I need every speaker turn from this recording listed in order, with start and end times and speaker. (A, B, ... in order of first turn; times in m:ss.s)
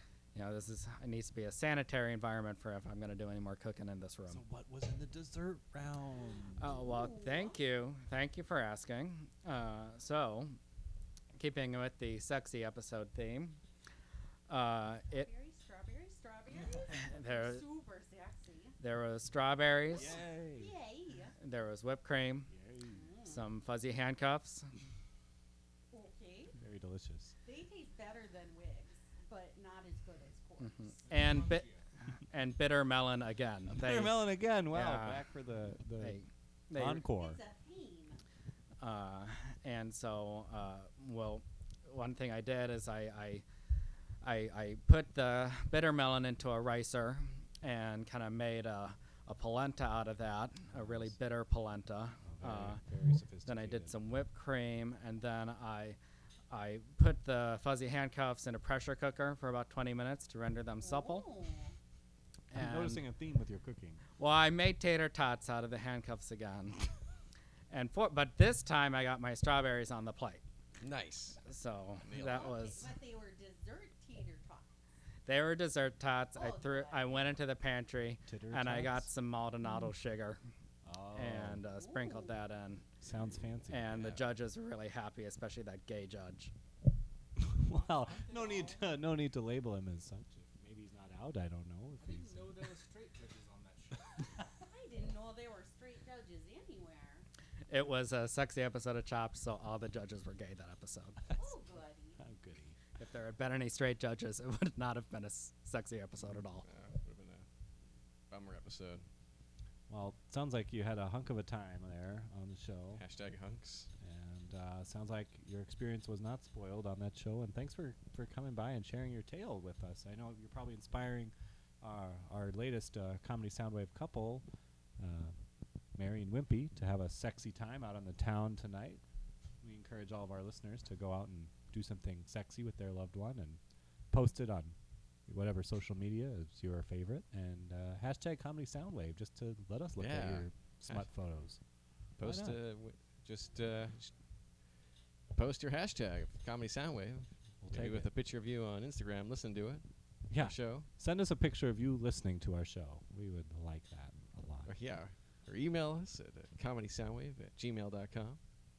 0:00.3-0:04.4 A
0:04.3-0:06.8 B
0:06.6-0:10.6 A
0:06.6-0:07.6 C
0:11.4-0:13.6 A
0:14.5-0:15.3 A
0:15.1-0:18.8 C
0:16.9-0:17.6 A
0:18.8-0:20.2 A
0:19.9-0:20.7 B
0:20.0-0:21.3 C
0:21.4-0:22.5 A
0:22.5-0:23.1 B
0:22.9-0:23.4 C
0:23.2-0:24.7 A
0:25.9-0:26.6 C
0:26.6-0:27.3 B
0:27.4-0:31.0 C
0:30.6-0:31.7 A
0:31.0-0:31.8 D
0:32.3-0:35.3 A
0:33.7-0:36.2 B
0:36.0-0:37.0 A
0:36.7-0:37.4 B
0:37.0-0:38.2 C
0:38.8-0:43.4 A
0:44.2-0:52.8 A
0:50.7-0:51.2 B
0:52.2-0:54.0 B
0:53.4-0:56.0 A
0:56.5-1:01.3 A
1:00.8-1:01.8 C
1:02.5-1:03.0 A
1:02.5-1:04.0 B
1:04.2-1:06.8 A
1:07.7-1:10.4 A
1:10.8-1:11.4 E
1:11.4-1:12.9 A
1:12.0-1:12.6 E
1:12.1-1:14.7 C
1:15.2-1:20.4 A
1:16.3-1:17.3 C
1:18.3-1:19.1 B
1:20.8-1:21.6 B
1:21.1-1:22.8 A
1:21.7-1:22.4 C
1:23.0-1:24.0 B
1:23.7-1:26.5 A
1:23.9-1:24.2 E
1:27.4-1:32.7 B
1:27.6-1:29.0 D
1:32.0-1:34.3 D
1:34.6-1:37.3 C
1:37.7-1:41.3 A
1:41.4-1:42.2 C
1:42.2-1:42.8 B
1:43.0-1:46.6 A
1:46.6-1:47.4 E
1:48.3-1:49.0 E
1:49.9-1:53.0 B
1:52.9-1:53.9 E
1:54.0-2:04.4 B
2:05.0-2:09.0 B
2:09.6-2:22.6 B
2:20.0-2:21.1 E
2:22.2-2:24.1 E
2:25.3-2:30.9 E
2:27.6-2:28.1 B
2:30.3-2:34.7 B
2:34.6-2:38.4 E